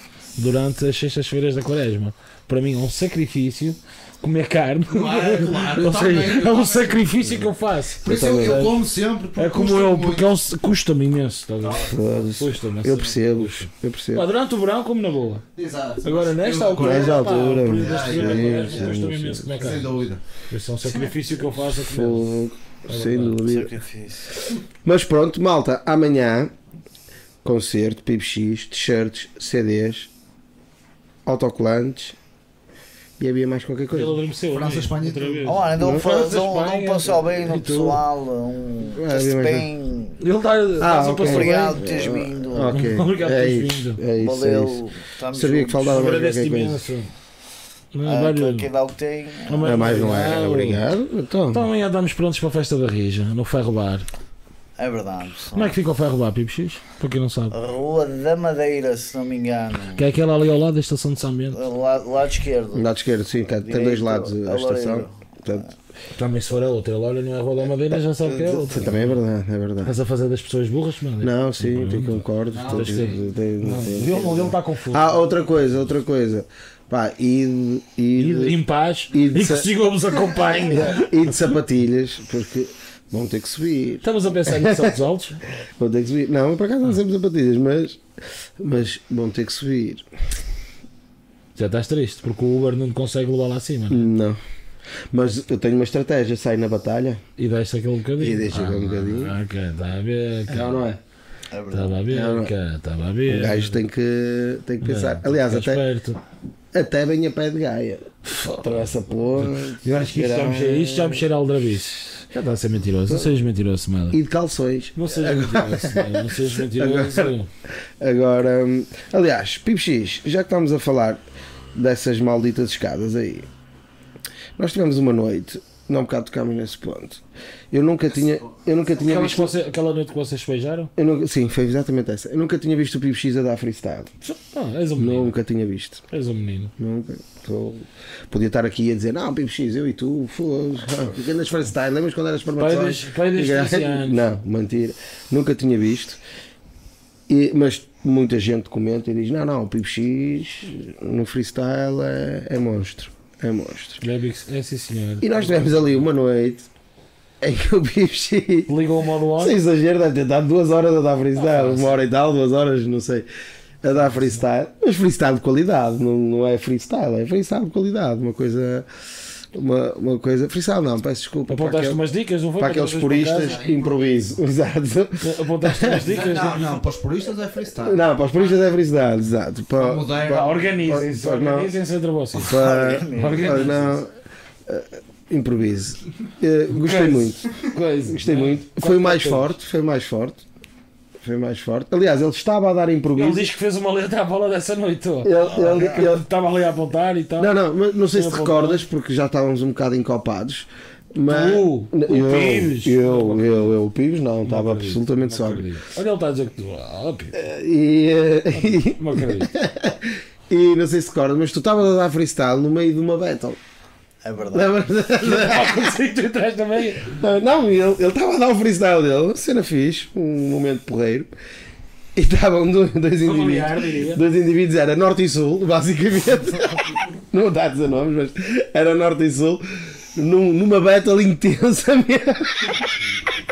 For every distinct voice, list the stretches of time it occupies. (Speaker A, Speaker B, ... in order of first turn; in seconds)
Speaker A: 0.4-8.8, 9.3-15.4, 16.0-22.3, 22.9-23.4, 33.9-38.0, 40.2-41.8, 42.7-44.0, 45.9-47.1, 47.9-48.7, 49.5-50.8, 51.5-54.0, 55.5-57.5, 60.0-61.6, 66.2-69.2, 69.8-75.1, 78.2-81.4, 84.0-85.4, 91.5-94.0, 97.4-100.8, 101.7-103.8, 104.8-106.2, 108.2-114.2, 115.0-117.5, 129.0-130.9, 134.2-135.3, 136.1-136.7, 142.6-144.2, 154.0-155.8, 158.7-159.6, 161.4-162.0, 171.5-173.6, 175.2-176.8, 180.2-182.6, 183.1-183.9, 186.7-189.5, 193.2-197.5, 198.1-198.8, 201.3-203.7, 204.4-207.3, 208.5-209.5, 215.2-217.1, 223.2-224.2
Speaker B: 4.9-7.5, 8.0-10.4, 11.6-12.1, 15.5-20.2, 34.5-35.7, 72.5-73.2, 173.4-174.2, 175.9-178.4, 179.8-180.6
Speaker C: 8.0-8.7, 11.8-14.2, 16.8-19.7, 21.7-23.7, 24.8-26.5, 27.4-30.1, 31.2-32.1, 33.2-34.2, 35.8-36.1, 38.9-39.7, 40.8-44.8, 45.3-46.8, 49.6-51.7, 62.7-65.7, 68.4-69.9, 71.2-78.6, 79.1-79.7, 80.6-85.0, 85.8-88.0, 88.6-90.0, 93.9-94.4, 95.1-97.2, 98.2-99.3, 100.5-101.0, 102.1-102.5, 103.3-105.8, 106.7-111.2, 114.1-117.3, 118.0-121.2, 121.7-123.5, 124.6-129.5, 130.9-134.1, 134.9-136.0, 136.8-146.2, 147.3-154.0, 155.2-156.7, 157.4-158.7, 159.4-163.2, 163.8-168.9, 169.5-172.0, 172.6-176.1, 177.8-181.7, 182.3-184.1, 184.7-190.4, 191.2-193.5, 195.2-196.2, 197.4-205.7, 207.3-213.6, 214.5-215.9, 217.0-221.3, 222.2-232.9
Speaker D: 23.4-24.3, 35.5-40.2, 40.9-42.8, 44.1-46.1, 48.0-49.9, 54.8-55.8, 57.5-60.1, 61.5-62.9, 63.6-65.7, 101.5-102.0, 182.4-183.9, 195.5-196.0, 214.2-214.8